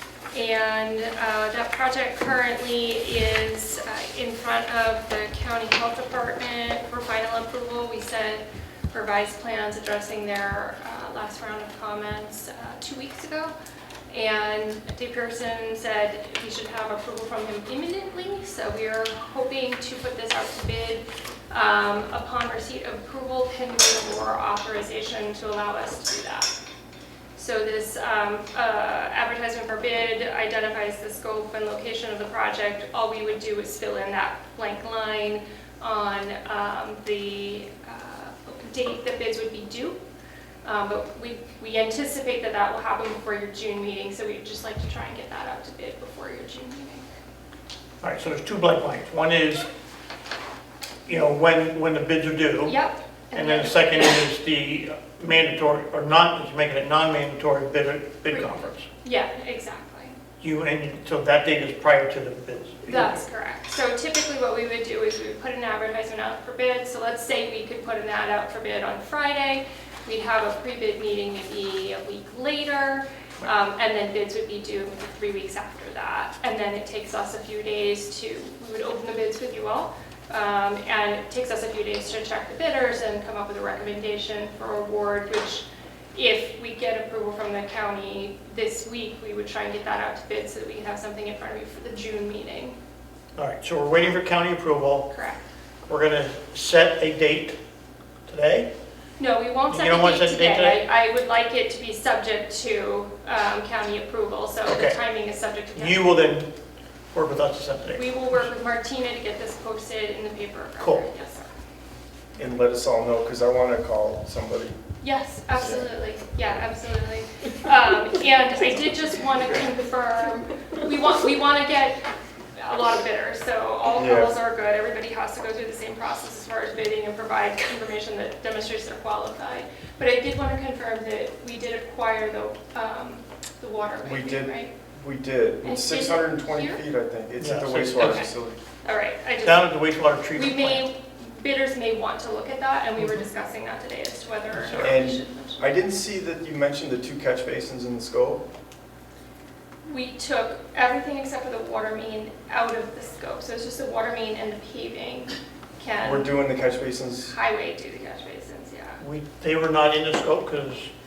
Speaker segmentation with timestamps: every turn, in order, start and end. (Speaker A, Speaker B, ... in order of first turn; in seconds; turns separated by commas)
Speaker A: 0.3-13.5, Speaker A: 14.1-26.6, Speaker A: 27.4-40.0, Speaker A: 40.6-47.1, Speaker B: 48.0-49.7, Speaker B: 51.1-52.8, Speaker A: 52.7-54.2, Speaker B: 53.3-58.9, Speaker A: 58.3-60.2, Speaker B: 60.4-63.2, Speaker A: 62.9-92.8, Speaker B: 93.4-95.1, Speaker A: 95.1-95.4, Speaker B: 95.9-97.6, Speaker B: 98.3-98.7, Speaker A: 99.2-106.1, Speaker B: 99.7-100.8, Speaker B: 104.7-105.0, Speaker B: 105.7-106.5, Speaker B: 107.1-108.4, Speaker A: 108.0-111.5, Speaker B: 110.8-111.1, Speaker C: 112.4-114.8, Speaker A: 115.0-122.0, Speaker C: 115.6-115.9, Speaker A: 122.6-134.7, Speaker C: 124.0-124.3, Speaker C: 134.0-138.6, Speaker A: 135.6-136.8, Speaker B: 137.4-138.2, Speaker A: 138.0-138.3, Speaker A: 138.8-139.8, Speaker B: 139.4-140.9, Speaker A: 140.3-145.6, Speaker B: 144.5-145.1, Speaker C: 144.8-148.4, Speaker A: 149.9-156.3, Speaker C: 156.0-157.3, Speaker A: 157.3-159.0, Speaker B: 159.0-160.9